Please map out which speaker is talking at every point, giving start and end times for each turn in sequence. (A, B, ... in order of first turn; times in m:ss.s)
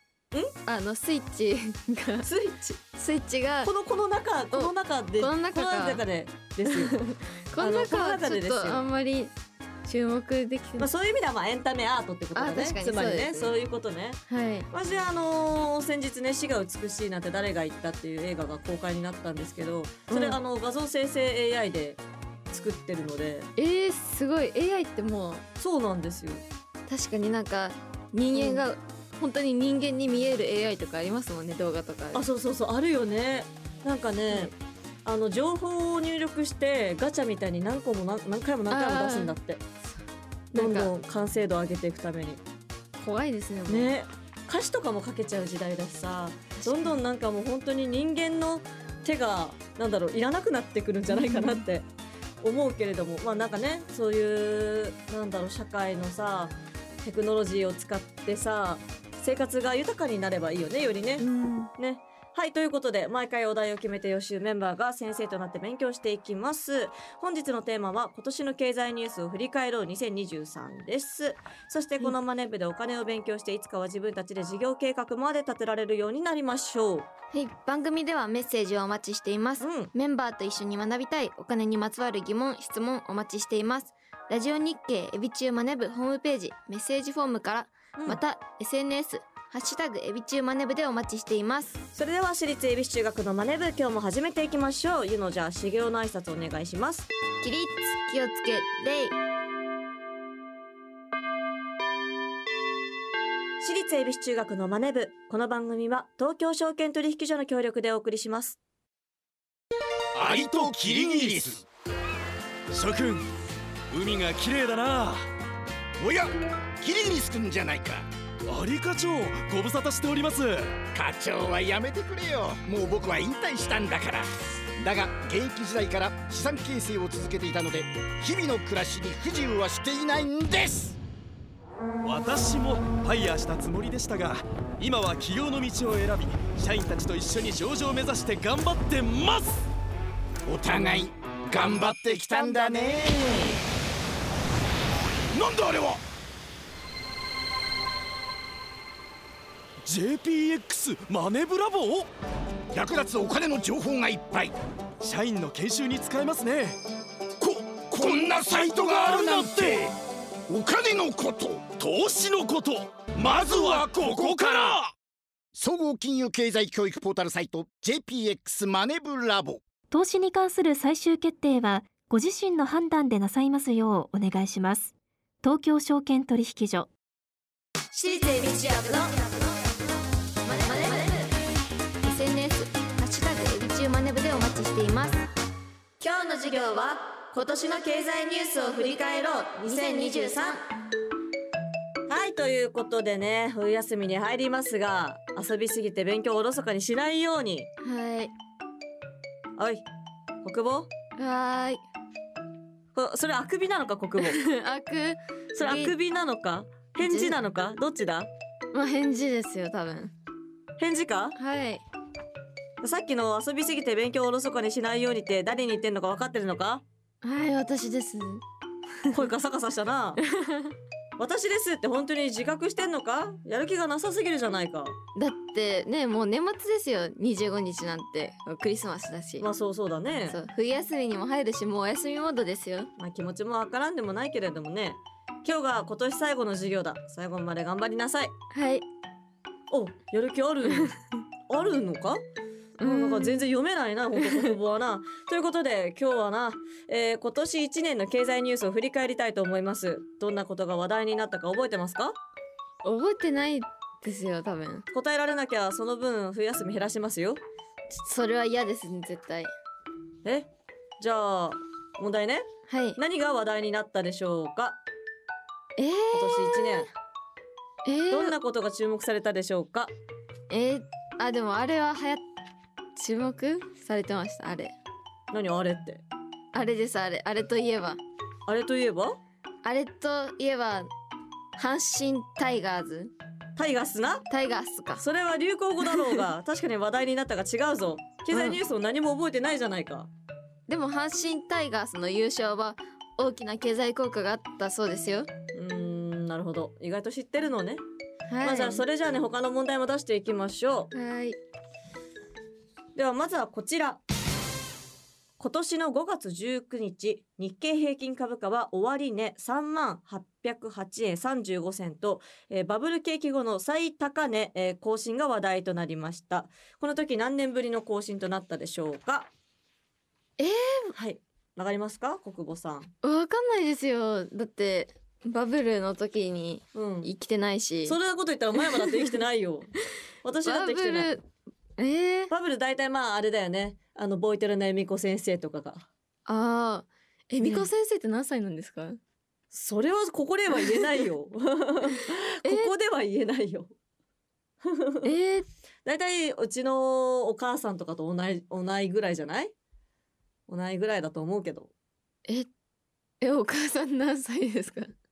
0:00.6-0:02.3 A
0:02.2-0:02.8 B
0:02.9-0:03.7 A
0:03.6-0:07.0 B
0:04.5-0:06.0 A
0:06.7-0:09.3 A
0:07.6-0:08.8 B
0:09.8-0:10.9 A
0:10.8-0:23.5 B
0:12.4-0:13.5 A
0:14.3-0:14.7 A
0:20.1-0:20.4 A
0:23.6-0:25.4 A
0:25.6-0:26.4 B
0:26.9-0:32.3 A
0:28.3-0:28.6 B
0:32.1-0:39.6 B
0:38.7-0:39.4 A
0:40.5-0:42.4 B
0:40.5-0:40.9 A
0:43.0-0:43.9 A
0:43.7-0:51.9 B
0:46.6-0:46.9 A
0:51.1-0:51.6 A
0:52.4-1:01.2 B
1:01.2-1:01.7 A
1:01.8-1:17.1 B
1:17.3-1:31.8 A
1:19.6-1:19.9 B
1:28.0-1:28.2 B
1:31.9-1:37.1 B
1:37.4-1:39.2 A
1:43.6-1:48.6 B
1:50.2-1:51.6 C
1:50.2-1:51.6 D
1:52.7-1:53.3 C
1:53.9-1:55.2 C
1:56.0-1:58.1 D
1:58.5-2:00.8 C
2:00.9-2:04.3 D
2:04.8-2:11.0 D
2:12.0-2:19.7 C
2:20.5-2:23.5 D
2:21.6-2:22.9 C
2:25.4-2:25.9 C
2:25.5-2:26.0 D
2:29.8-2:32.1 C
2:32.7-2:34.6 D
2:35.0-2:36.8 C
2:37.4-2:39.9 D
2:37.7-2:39.9 C
2:40.5-2:41.8 D
2:41.8-2:44.9 C
2:43.2-2:44.8 D
2:45.5-2:49.6 D
2:49.9-2:54.9 E
2:55.4-2:56.9 E
2:57.9-2:59.4 B
3:00.5-3:01.3 A
3:02.0-3:05.3 A
3:06.0-3:10.6 B
3:09.6-3:10.6 A
3:12.1-3:17.7 B
3:17.8-3:18.3 A
3:19.6-3:19.9 B
3:20.4-3:20.9 B
3:21.2-3:21.8 A
3:23.0-3:24.4 B
3:24.2-3:26.0 A
3:25.6-3:28.3 B
3:27.0-3:27.4 A
3:28.7-3:30.1 A
3:30.8-3:31.4 B
3:31.4-3:31.8 A
3:32.8-3:36.8 B
3:37.2-3:38.4 A
3:39.1-3:40.2 B
3:40.4-3:40.7 A
3:41.2-3:45.0 B
3:45.2-3:49.5 A
3:49.4-3:50.4 B
3:50.3-3:52.9 A
3:53.0-3:58.3 B
3:58.5-3:58.8 A
3:59.7-4:01.0 B
4:01.5-4:02.2 B
4:02.8-4:03.4 A
4:02.8-4:12.2 B
4:04.2-4:04.5 A
4:12.8-4:14.9 A
4:14.9-4:17.4 B
4:17.9-4:19.5 A
4:21.0-4:24.8 B
4:22.7-4:23.0 A
4:25.8-4:26.8 A
4:26.1-4:26.9 B
4:27.8-4:28.3 A
4:28.1-4:29.9 B
4:30.5-4:32.2 A
4:33.0-4:34.7 A
4:35.3-4:36.0 B
4:36.5-4:38.0 A
4:38.5-4:39.2 B
4:39.6-4:40.9 A
4:41.6-4:43.1 A
4:43.6-4:44.3 B
4:44.3-4:45.0 A
4:45.0-4:50.1 B
4:48.3-4:48.6 A
4:50.7-4:55.3 A
4:55.5-4:57.8 B
4:58.3-4:58.8 A
4:58.4-5:00.9 B
5:00.9-5:01.4 A
5:03.0-5:04.0 B
5:05.4-5:19.3 B
5:20.4-5:20.9 A
5:20.9-5:22.9 B
5:23.0-5:28.0 A
5:26.7-5:27.1 B
5:27.8-5:29.7 B
5:30.2-5:31.1 B
5:30.4-5:31.2 A
5:31.8-5:32.3 A
5:32.3-5:35.9 B
5:36.3-5:39.0 A
5:37.4-5:37.7 B
5:39.5-5:43.7 B
5:42.4-5:42.7 A
5:44.7-5:45.1 B
5:45.0-5:45.5 A
5:45.8-5:49.5 B
5:50.5-5:51.7 B
5:53.2-5:54.9 A